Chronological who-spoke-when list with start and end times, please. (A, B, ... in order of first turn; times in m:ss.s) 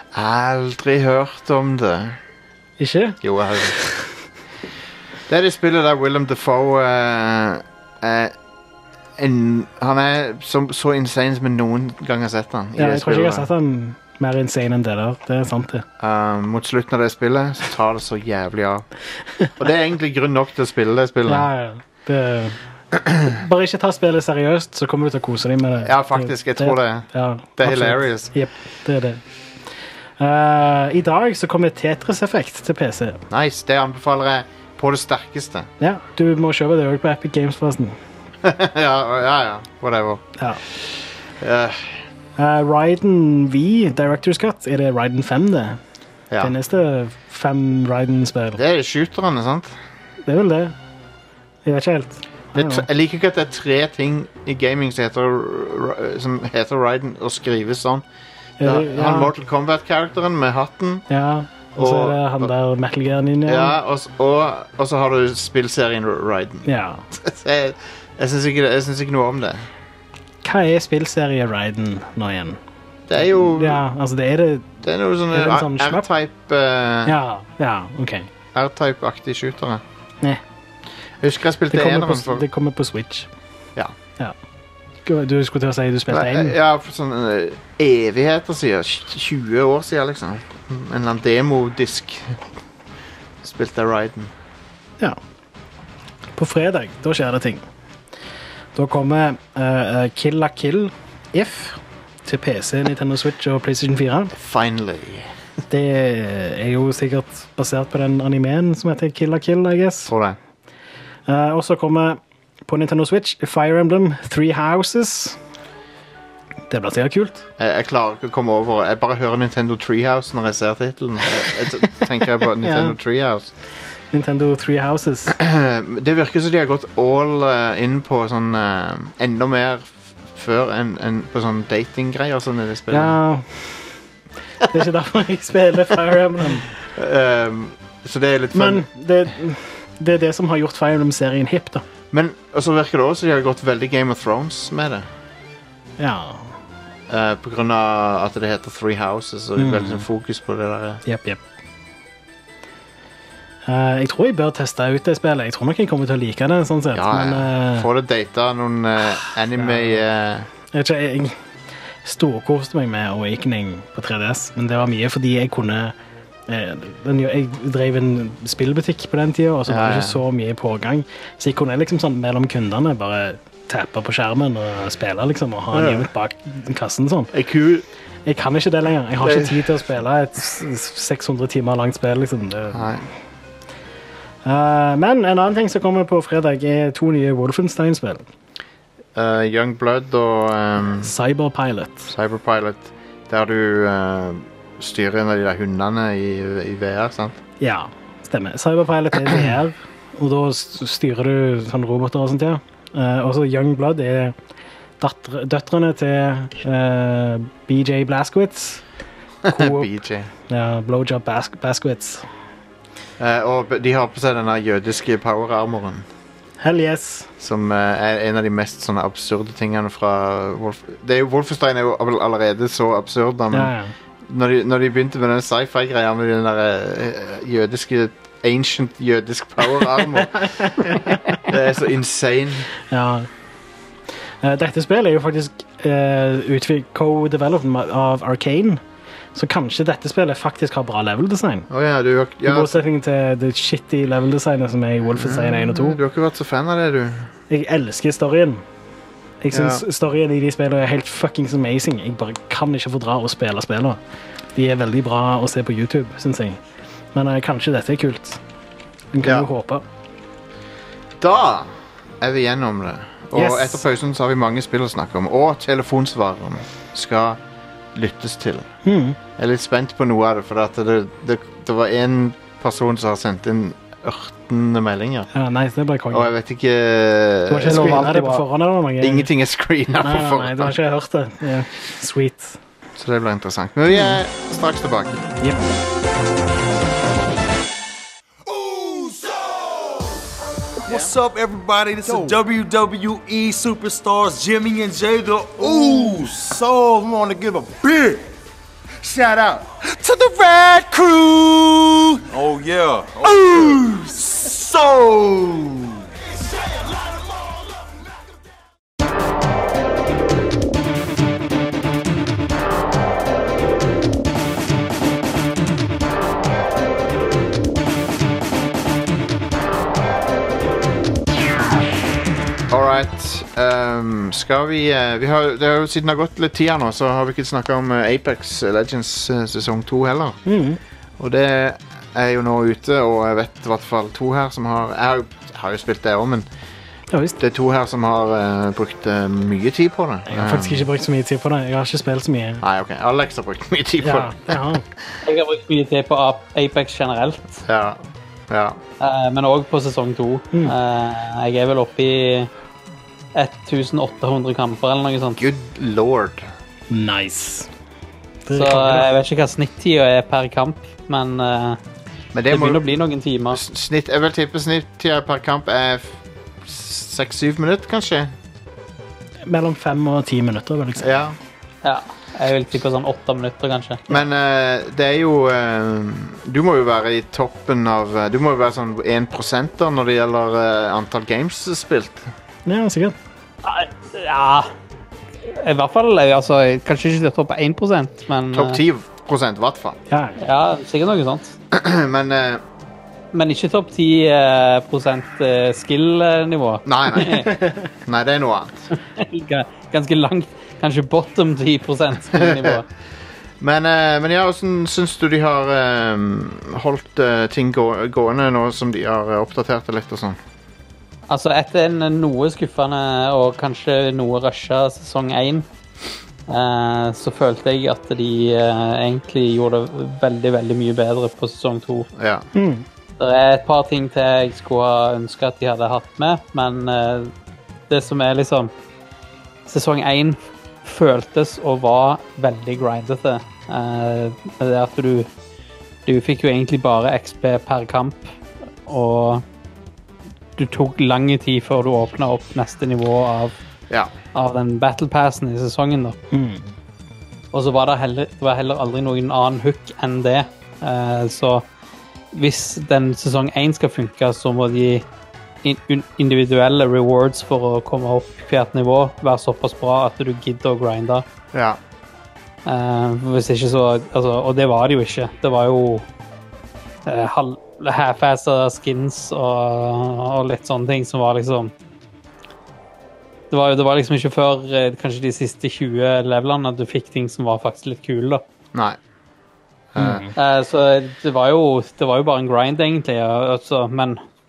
0:00.1-0:02.2 A
0:02.8-0:04.1 B
0:03.2-0:03.8 A
0:05.3-0:08.3 A
0:09.2-0:13.5 A
0:12.8-0:15.8 B
0:16.0-0:18.9 A
0:19.6-0:21.5 A
0:21.3-0:22.6 B
0:23.1-0:29.2 B
0:25.8-0:28.3 A
0:30.2-0:33.2 B
0:33.3-0:35.7 A
0:35.8-0:38.0 B
0:38.4-0:40.2 A
0:40.8-0:42.0 A
0:42.4-0:45.8 B
0:46.4-0:48.6 B
0:48.6-0:49.8 A
0:50.2-0:50.8 B
0:51.6-0:52.9 B
0:52.6-0:58.0 A
0:58.6-0:59.3 B
0:58.6-1:01.0 A
1:01.1-1:03.8 B
1:01.8-1:02.5 A
1:03.5-1:09.7 A
1:06.7-1:07.0 B
1:10.4-1:12.6 B
1:13.1-1:13.8 A
1:13.2-1:14.7 B
1:14.8-1:17.2 A
1:15.3-1:16.0 B
1:17.1-1:18.3 B
1:18.5-1:19.8 A
1:21.2-1:22.4 A
1:21.7-1:23.3 B
1:25.1-1:26.6 B
1:26.1-1:32.4 A
1:33.4-1:34.3 A
1:36.4-1:37.6 B
1:38.8-1:44.3 B
1:44.4-1:45.3 A
1:45.7-1:50.1 B
1:50.1-1:50.4 A
1:51.3-1:55.4 B
1:56.7-1:57.5 B
1:57.6-2:03.5 A
2:02.6-2:03.0 B
2:04.1-2:05.4 B
2:05.3-2:13.2 A
2:12.9-2:14.0 B
2:14.6-2:16.7 B
2:16.9-2:18.8 A
2:18.5-2:21.8 B
2:22.1-2:25.1 A
2:26.0-2:26.5 B
2:27.1-2:31.0 A
2:29.6-2:30.0 B
2:31.1-2:31.4 B
2:33.7-2:37.9 B
2:36.9-2:40.5 A
2:39.6-2:40.0 B
2:40.7-2:41.4 B
2:42.0-2:45.9 B
2:46.5-2:57.3 B
2:49.7-2:50.2 A
2:55.7-2:56.1 A
2:57.3-2:57.9 A
2:58.3-3:02.9 B
2:59.2-2:59.7 A
3:02.7-3:03.1 A
3:04.4-3:08.2 B
3:09.2-3:11.1 A
3:11.0-3:12.1 B
3:12.1-3:17.4 A
3:17.6-3:24.4 B
3:25.0-3:28.8 B
3:29.4-3:30.3 A
3:29.5-3:29.9 B
3:30.5-3:32.2 B
3:33.2-3:36.1 A
3:36.6-3:37.3 B
3:37.4-3:43.7 A
3:43.5-3:43.9 B
3:44.3-3:52.7 A
3:50.2-3:51.4 B
3:52.9-3:53.3 B
3:54.4-3:58.8 B
3:59.4-4:01.7 B
4:01.7-4:02.8 A
4:02.4-4:06.0 B
4:05.1-4:07.3 A
4:07.5-4:08.6 B
4:09.4-4:14.0 B
4:09.5-4:09.8 A
4:14.6-4:16.6 B
4:17.2-4:18.4 B
4:19.1-4:19.8 B
4:19.2-4:19.5 A
4:21.2-4:27.4 A
4:23.4-4:23.8 B
4:27.9-4:28.7 A
4:28.8-4:29.2 B
4:29.4-4:35.3 A
4:35.3-4:36.3 B
4:36.1-4:38.4 A
4:37.5-4:39.3 B
4:39.0-4:40.8 A
4:40.0-4:42.6 B
4:43.0-4:45.3 A
4:43.9-4:44.2 B
4:48.5-4:50.0 C
4:50.9-4:58.3 C
4:59.0-5:06.0 C
5:22.7-5:30.4 A
5:30.5-5:30.8 B
5:31.2-5:36.5 A
5:37.1-5:37.4 B
5:37.4-5:40.9 A
5:40.3-5:42.6 B
5:42.6-5:44.8 A
5:44.0-5:44.8 B
5:45.2-5:47.6 D
5:47.6-5:48.8 A
5:49.0-5:52.5 D
5:53.4-5:55.4 D
5:55.4-5:56.5 A
5:56.9-5:57.7 B
5:58.5-5:59.1 B
5:58.5-6:01.8 D
6:02.3-6:02.8 A
6:02.5-6:03.6 D
6:03.5-6:08.3 A
6:09.5-6:11.2 B
6:11.0-6:11.4 A
6:11.8-6:14.0 D
6:14.1-6:22.3 A
6:22.7-6:23.2 B
6:23.6-6:24.7 D
6:25.4-6:28.8 D
6:28.5-6:30.0 A
6:30.1-6:30.4 B
6:30.4-6:31.6 D
6:31.7-6:32.6 A
6:33.3-6:37.5 D
6:36.9-6:37.5 A
6:38.0-6:38.9 A
6:38.9-6:42.9 D
6:42.3-6:42.8 A
6:43.6-6:50.4 A
6:51.3-6:55.7 D
6:56.5-7:02.1 D
7:02.2-7:02.5 A
7:02.6-7:02.8 B
7:03.2-7:07.3 D
7:07.9-7:08.7 D
7:09.7-7:15.3 D
7:16.1-7:18.3 D
7:18.9-7:19.4 D
7:20.6-7:23.6 D
7:24.3-7:26.2 D
7:26.3-7:26.7 B
7:27.5-7:31.7 D
7:32.3-7:35.0 D
7:35.6-7:41.2 D
7:41.5-7:41.8 A
7:42.7-7:46.1 D
7:47.1-7:51.7 D
7:53.5-7:58.4 D
7:59.9-8:00.3 A
8:00.0-8:00.3 B
8:00.4-8:04.2 D